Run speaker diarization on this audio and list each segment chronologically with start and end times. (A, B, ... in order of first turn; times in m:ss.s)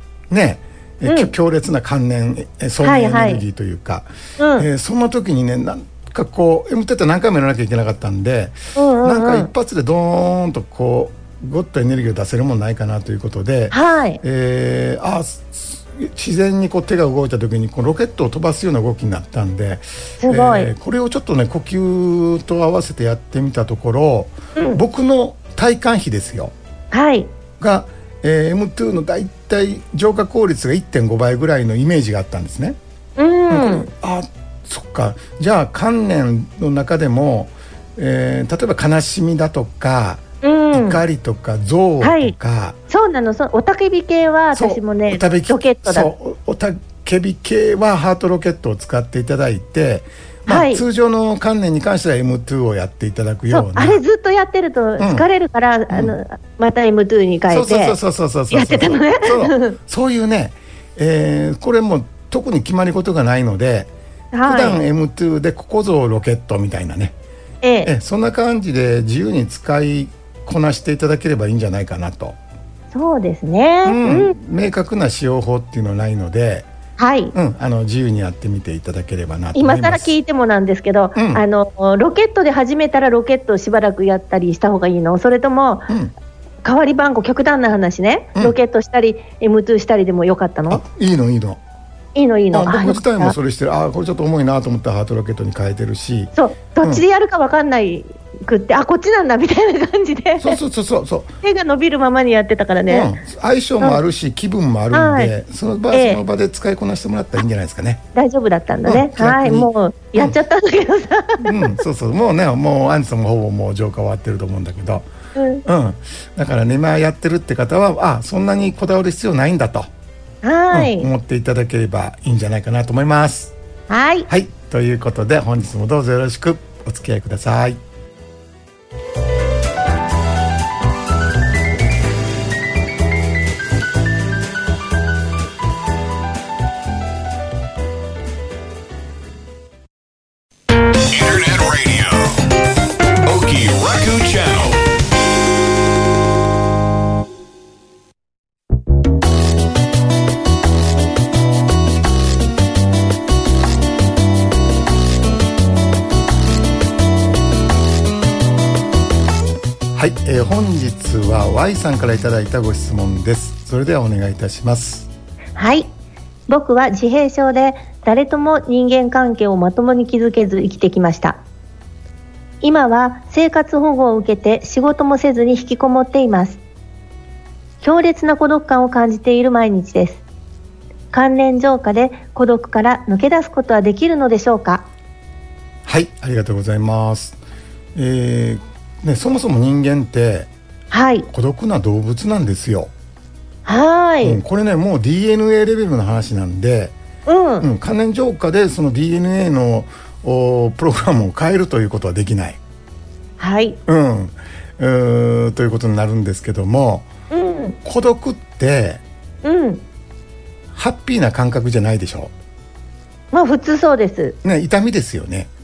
0:00.3-0:04.1 A
0:01.1-0:01.3 B
0:02.8-0:03.4 B
0:04.4-0:04.7 B
0:04.6-0:26.5 A
0:08.8-0:09.5 B
0:13.7-0:14.2 B
0:20.2-0:20.7 B
0:24.6-0:24.8 B
0:26.9-0:27.3 B
0:27.6-0:32.8 A
0:33.2-0:33.9 B
0:33.5-0:42.8 A
0:40.4-0:41.0 B
0:42.0-0:42.3 B
0:42.9-0:46.1 B
0:44.5-0:54.0 A
0:50.5-0:50.8 B
0:53.5-0:58.0 B
0:55.0-0:55.3 A
0:55.9-0:56.2 A
0:57.5-1:03.9 A
0:58.5-0:59.8 B
1:04.3-1:04.8 B
1:04.5-1:07.2 A
1:07.6-1:07.9 B
1:07.8-1:12.4 A
1:12.9-1:14.3 B
1:13.8-1:16.7 A
1:17.0-1:17.3 B
1:17.3-1:20.1 A
1:19.5-1:25.9 B
1:21.2-1:21.4 A
1:26.6-1:30.8 B
1:30.7-1:31.6 A
1:32.2-1:33.4 B
1:32.5-1:37.0 A
1:36.4-1:40.6 B
1:40.4-1:41.3 A
1:41.4-1:43.1 B
1:42.9-1:48.0 A
1:44.9-1:45.3 B
1:45.9-1:46.2 B
1:48.2-1:51.8 B
1:48.8-1:50.4 A
1:51.4-1:55.1 A
1:55.4-1:55.6 B
1:55.6-1:59.9 A
2:00.4-2:01.1 B
2:00.7-2:03.5 A
2:03.9-2:04.3 B
2:04.3-2:07.8 A
2:21.1-2:22.5 C
2:23.2-2:24.8 C
2:39.9-2:45.1 A
2:45.6-2:45.9 B
2:46.5-2:51.4 B
2:52.6-2:56.6 B
2:57.8-3:00.2 B
3:01.1-3:04.9 B
3:05.8-3:07.4 A
3:08.0-3:10.5 A
3:10.9-3:11.3 B
3:11.3-3:12.9 A
3:13.7-3:14.4 B
3:14.2-3:17.0 A
3:17.3-3:17.7 B
3:17.6-3:22.6 A
3:23.4-3:23.8 B
3:23.9-3:27.1 A
3:27.3-3:27.8 B
3:27.8-3:29.0 A
3:29.4-3:29.8 B
3:30.7-3:32.3 A
3:33.3-3:34.4 B
3:34.4-3:35.5 A